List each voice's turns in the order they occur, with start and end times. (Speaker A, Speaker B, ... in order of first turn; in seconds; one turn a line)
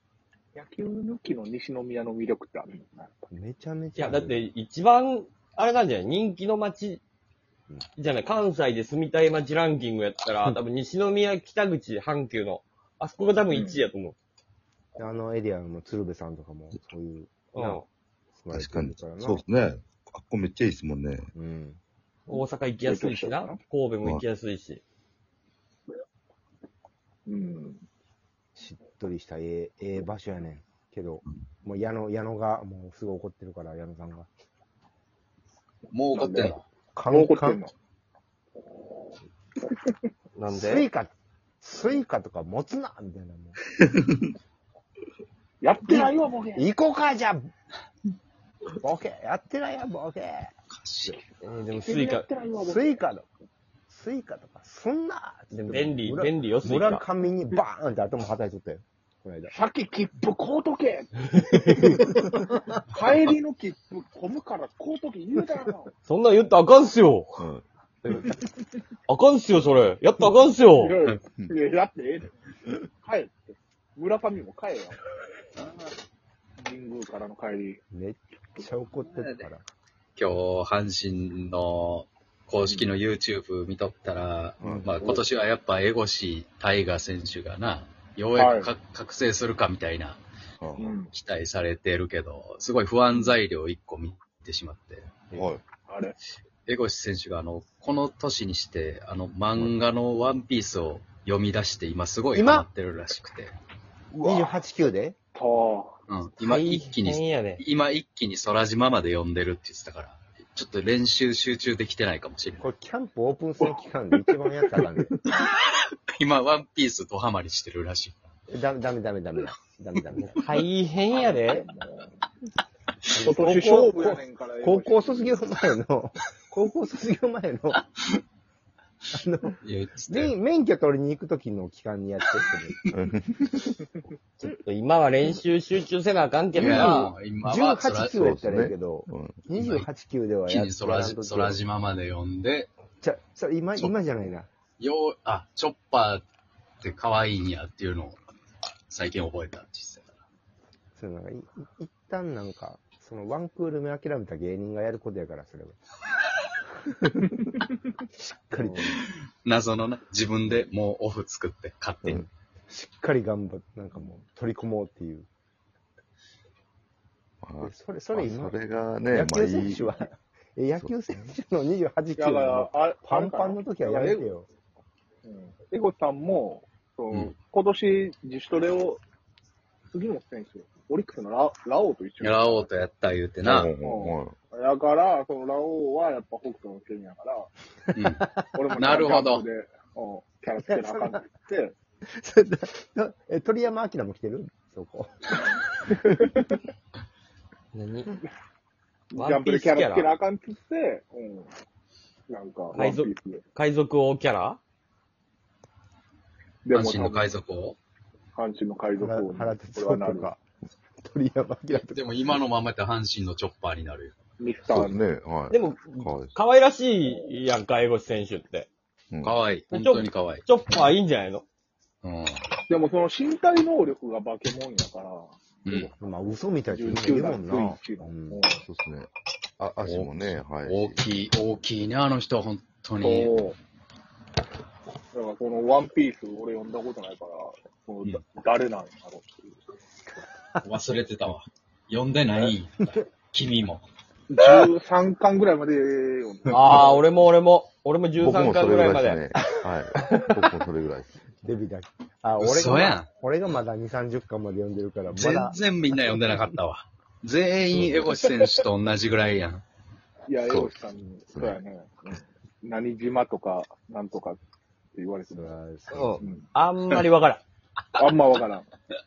Speaker A: 0.6-3.1
Speaker B: 3.3-4.5
Speaker C: 4.0-7.0
Speaker C: 8.0-14.1
Speaker A: 13.5-13.8
Speaker B: 15.0-17.8
Speaker C: 17.5-17.9
Speaker B: 18.4-19.4
Speaker D: 18.5-21.3
Speaker B: 21.3-21.8
Speaker C: 22.3-24.8
Speaker A: 22.8-23.6
Speaker A: 27.2-27.8
Speaker B: 28.6-34.3
Speaker E: 35.9-36.6
Speaker A: 36.1-36.6
Speaker B: 36.9-37.6
Speaker A: 37.1-37.7
Speaker C: 40.4-40.9
Speaker B: 40.5-43.6
Speaker A: 45.6-46.6
Speaker B: 45.9-47.5
Speaker B: 48.8-50.5
Speaker E: 50.7-51.2
Speaker A: 51.1-53.0
Speaker C: 51.4-52.2
Speaker B: 52.6-53.3
Speaker B: 53.9-59.5
Speaker C: 55.5-57.1
Speaker A: 59.5-62.1
Speaker C: 61.3-62.0
Speaker B: 61.9-62.7
Speaker A: 62.9-65.9
Speaker C: 66.1-67.4
Speaker D: 67.4-67.6
Speaker C: 69.1-71.0
Speaker A: 70.8-72.3
Speaker A: 73.0-75.0
Speaker E: 75.6-75.9
Speaker A: 76.6-77.8
Speaker B: 77.9-79.6
Speaker E: 78.9-79.5
Speaker E: 80.2-90.2
Speaker B: 84.6-84.9
Speaker D: 84.6-85.2
Speaker A: 88.4-88.7
Speaker D: 90.6-90.9
Speaker A: 90.8-91.1
Speaker E: 91.0-95.2
Speaker D: 95.3-95.6
Speaker A: 95.9-96.2
Speaker E: 96.7-103.5
Speaker B: 102.3-102.7
Speaker D: 104.2-104.5
Speaker B: 104.2-105.2
Speaker A: 105.4-105.9
Speaker E: 106.1-112.6
Speaker C: 106.4-107.6
Speaker B: 112.6-115.1
Speaker E: 116.1-118.2
Speaker B: 118.5-120.5
Speaker C: 120.3-121.7
Speaker A: 121.1-122.1
Speaker B: 123.1-127.8
Speaker A: 123.2-125.4
Speaker B: 129.1-129.6
Speaker E: 129.6-130.4
Speaker B: 130.1-132.8
Speaker D: 132.9-133.7
Speaker C: 134.4-137.1
Speaker E: 136.5-138.2
Speaker B: 136.6-141.6
Speaker D: 138.1-139.4
Speaker E: 139.6-139.9
Speaker E: 140.4-142.7
Speaker B: 143.0-144.5
Speaker E: 144.8-146.2
Speaker E: 146.8-148.2
Speaker E: 148.9-150.1
Speaker B: 151.0-155.8
Speaker B: 156.7-157.3
Speaker B: 158.2-159.0
Speaker E: 158.8-162.2
Speaker B: 162.0-165.3
Speaker D: 167.4-170.0
Speaker B: 167.6-174.5
Speaker D: 170.8-171.2
Speaker A: 172.2-174.3
Speaker A: 175.2-179.0
Speaker A: 179.9-182.8
Speaker E: 182.2-183.7
Speaker D: 183.4-184.3
Speaker A: 183.8-187.5
Speaker E: 187.9-189.4
Speaker B: 188.1-188.4
Speaker A: 188.6-191.7
Speaker B: 190.6-191.2
Speaker B: 192.1-196.2
Speaker C: 197.7-198.1
Speaker A: 199.1-201.5
Speaker C: 199.1-200.1
Speaker A: 202.3-203.4
Speaker C: 202.7-204.6
Speaker A: 206.7-207.3
Speaker E: 206.7-207.8
Speaker A: 208.4-210.3
Speaker B: 209.0-210.4
Speaker B: 211.0-212.3
Speaker E: 211.8-214.1
Speaker A: 214.4-215.0
Speaker D: 214.6-216.3
Speaker C: 215.5-218.7
Speaker D: 219.1-219.4
Speaker E: 219.2-220.5
Speaker C: 219.7-221.4
Speaker E: 222.0-222.4
Speaker A: 222.7-225.9
Speaker E: 225.7-225.9
Speaker B: 226.0-228.4
Speaker A: 226.7-228.6
Speaker D: 228.5-231.0
Speaker E: 229.8-233.3
Speaker A: 233.0-233.6
Speaker A: 235.1-239.6
Speaker E: 240.6-243.8
Speaker A: 244.3-247.0
Speaker C: 246.5-249.3
Speaker D: 248.2-251.2
Speaker B: 251.4-256.6
Speaker E: 252.4-253.1
Speaker E: 255.1-259.6
Speaker A: 260.3-264.4
Speaker D: 260.5-261.6
Speaker A: 265.0-265.6
Speaker B: 265.3-266.2
Speaker C: 265.9-267.4
Speaker A: 268.0-268.6